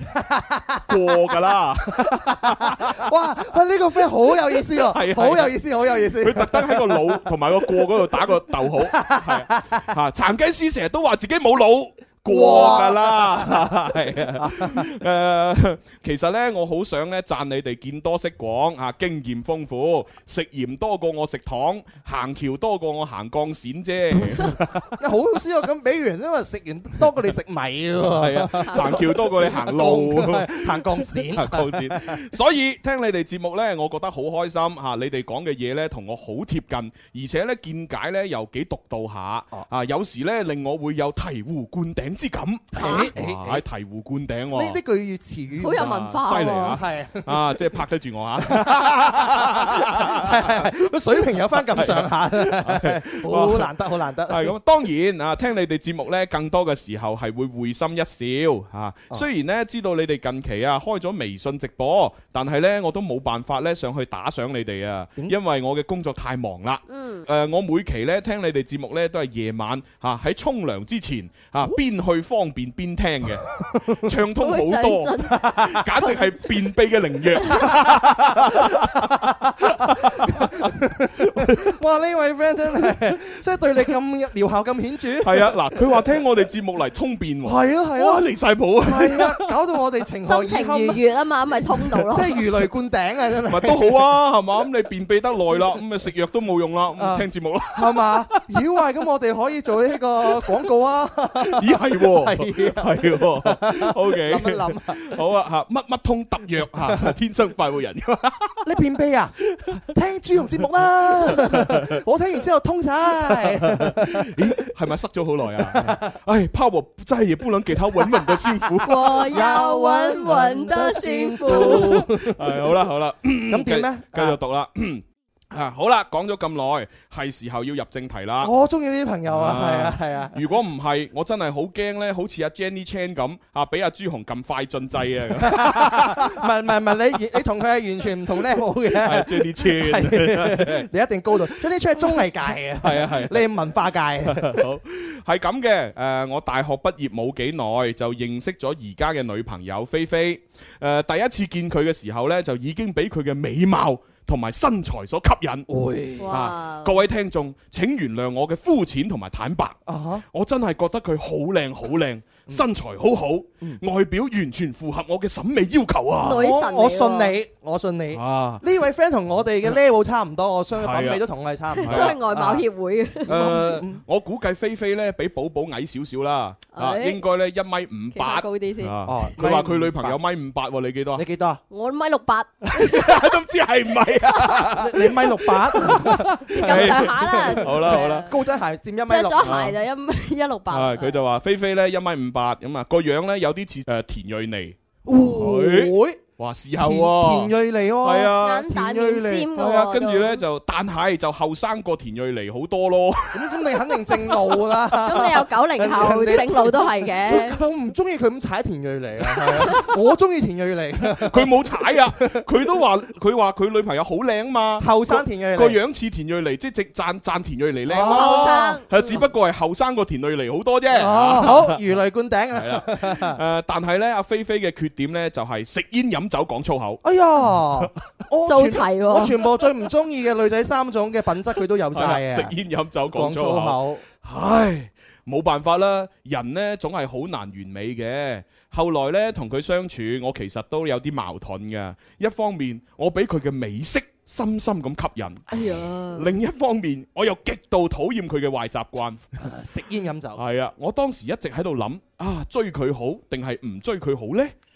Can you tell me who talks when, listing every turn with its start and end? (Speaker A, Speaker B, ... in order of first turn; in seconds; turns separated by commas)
Speaker A: 0.1-0.9, Speaker B: 0.8-3.0, Speaker A: 2.1-9.8, Speaker B: 4.8-24.9, Speaker A: 12.2-14.9, Speaker A: 24.9-32.2, Speaker B: 28.1-44.8, Speaker A: 42.7-43.6, Speaker C: 42.8-43.1, Speaker A: 44.5-47.5, Speaker C: 45.6-46.8, Speaker B: 45.8-50.6, Speaker A: 48.4-54.5, Speaker B: 51.5-53.7, Speaker B: 54.3-81.7, Speaker C: 66.9-67.3, Speaker A: 73.5-74.1, Speaker C: 74.3-76.3, Speaker C: 77.4-77.8, Speaker A: 77.8-78.7, Speaker A: 79.9-85.5, Speaker B: 85.2-89.4, Speaker A: 87.4-88.2, Speaker A: 88.8-91.0, Speaker C: 90.2-92.4, Speaker A: 92.1-94.0, Speaker B: 93.5-98.4, Speaker A: 97.0-105.0, Speaker B: 101.4-108.7, Speaker A: 106.8-107.1, Speaker A: 108.6-114.3, Speaker B: 109.5-109.9, Speaker B: 111.1-112.0, Speaker B: 113.3-119.5, Speaker A: 115.7-116.1, Speaker C: 118.8-122.0, Speaker A: 119.3-122.8, Speaker B: 121.5-128.5, Speaker A: 123.5-124.4, Speaker A: 128.4-130.4, Speaker B: 129.3-136.3, Speaker A: 135.4-144.6, Speaker B: 139.0-140.8, Speaker B: 142.8-143.4, Speaker B: 144.3-155.7, Speaker A: 155.7-156.4, Speaker C: 156.2-157.0, Speaker B: 156.3-166.5, Speaker A: 159.8-160.2, Speaker C: 166.2-167.3, Speaker A: 166.2-172.6, Speaker B: 168.1-168.6, Speaker B: 170.7-171.2, Speaker C: 171.7-173.6, Speaker B: 171.8-172.2, Speaker A: 173.3-174.0, Speaker B: 173.3-181.2, Speaker C: 176.7-177.2, Speaker C: 178.1-178.9, Speaker A: 179.1-180.2, Speaker A: 181.2-181.6, Speaker C: 181.7-183.3, Speaker B: 182.7-188.3, Speaker C: 184.3-184.7, Speaker A: 184.7-189.6, Speaker C: 185.8-188.4, Speaker C: 189.1-191.2, Speaker B: 189.4-189.8, Speaker B: 190.7-194.8, Speaker A: 195.1-196.2, Speaker B: 195.3-198.7, Speaker A: 196.8-199.5, Speaker C: 198.4-200.4, Speaker B: 199.5-204.7, Speaker A: 203.3-212.4, Speaker C: 205.0-207.6, Speaker B: 209.4-209.8, Speaker B: 211.1-221.8, Speaker A: 214.8-215.8, Speaker A: 217.9-218.8, Speaker C: 218.0-219.2, Speaker A: 220.9-223.4, Speaker B: 222.5-227.0, Speaker A: 227.0-232.5, Speaker C: 228.4-229.4, Speaker B: 231.9-249.2, Speaker A: 233.1-234.0, Speaker C: 245.5-246.3, Speaker A: 249.4-250.4, Speaker B: 250.3-254.5